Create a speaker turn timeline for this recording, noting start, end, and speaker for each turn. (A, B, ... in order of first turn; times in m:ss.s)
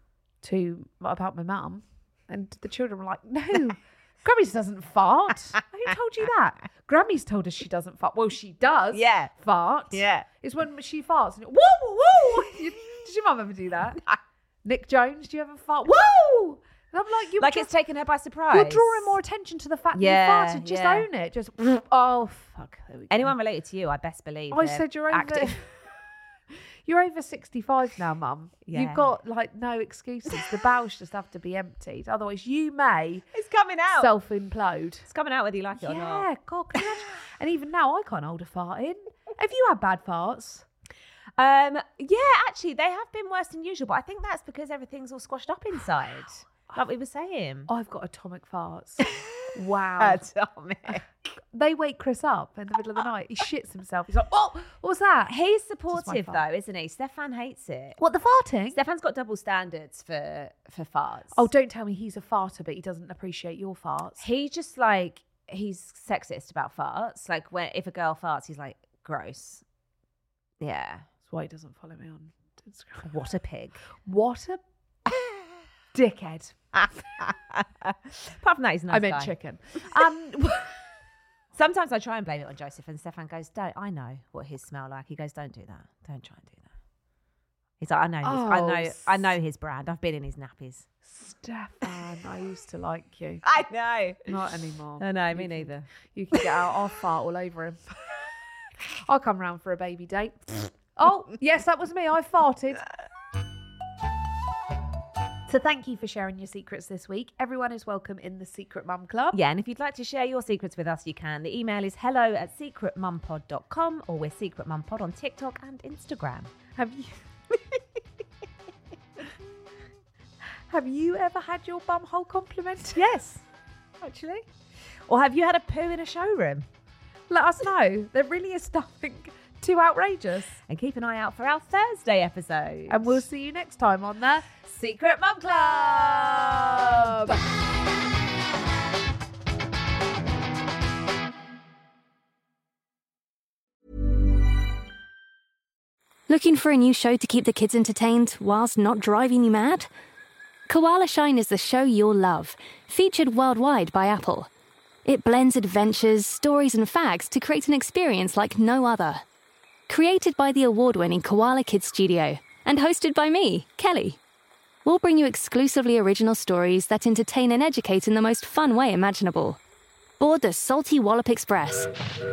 0:00.4-0:14.0 A
0:08.9-0:09.3 B
0:09.9-0:10.3 B
0:14.6-0:17.7 A
0:17.4-0:19.2 B
0:18.5-0:23.3 A
0:20.0-0:21.1 B
0:23.1-0:25.6 B
0:24.5-0:25.7 A
0:26.9-0:33.2 A
0:28.7-0:29.1 B
0:33.3-0:34.1 B
0:33.9-0:35.1 A
0:35.1-0:36.3 B
0:35.8-0:40.7 A
0:41.4-0:47.7 B
0:47.7-0:50.2 A
0:49.0-0:51.0 B
0:51.5-0:55.4 A
0:55.3-0:58.0 B
0:55.9-0:56.4 A
0:58.0-0:58.8 A
0:58.7-1:01.5 B
1:01.3-1:04.2 A
1:04.2-1:09.6 B
1:10.6-1:11.0 B
1:11.3-1:13.1 A
1:13.0-1:13.8 B
1:14.0-1:14.6 A
1:15.9-1:16.6 A
1:16.8-1:19.3 B
1:18.9-1:20.7 A
1:21.6-1:26.7 B
1:27.8-1:30.9 B
1:28.2-1:29.4 A
1:31.0-1:33.4 A
1:33.4-1:34.3 B
1:34.3-1:38.2 A
1:35.0-1:35.9 B
1:39.1-1:42.8 A
1:45.5-1:49.4 A
1:49.3-1:56.5 B
1:56.8-1:57.2 A
2:00.7-2:03.0 A
2:03.0-2:03.4 B
2:04.0-2:04.4 B
2:05.1-2:06.7 B
2:07.3-2:10.6 A
2:10.7-2:13.2 B
2:12.9-2:14.5 A
2:14.6-2:17.4 B
2:26.3-2:29.9 C
2:30.7-2:34.5 C
2:35.0-2:39.2 C
2:39.9-2:44.2 C
2:44.8-2:49.6 C
2:50.2-2:51.9 C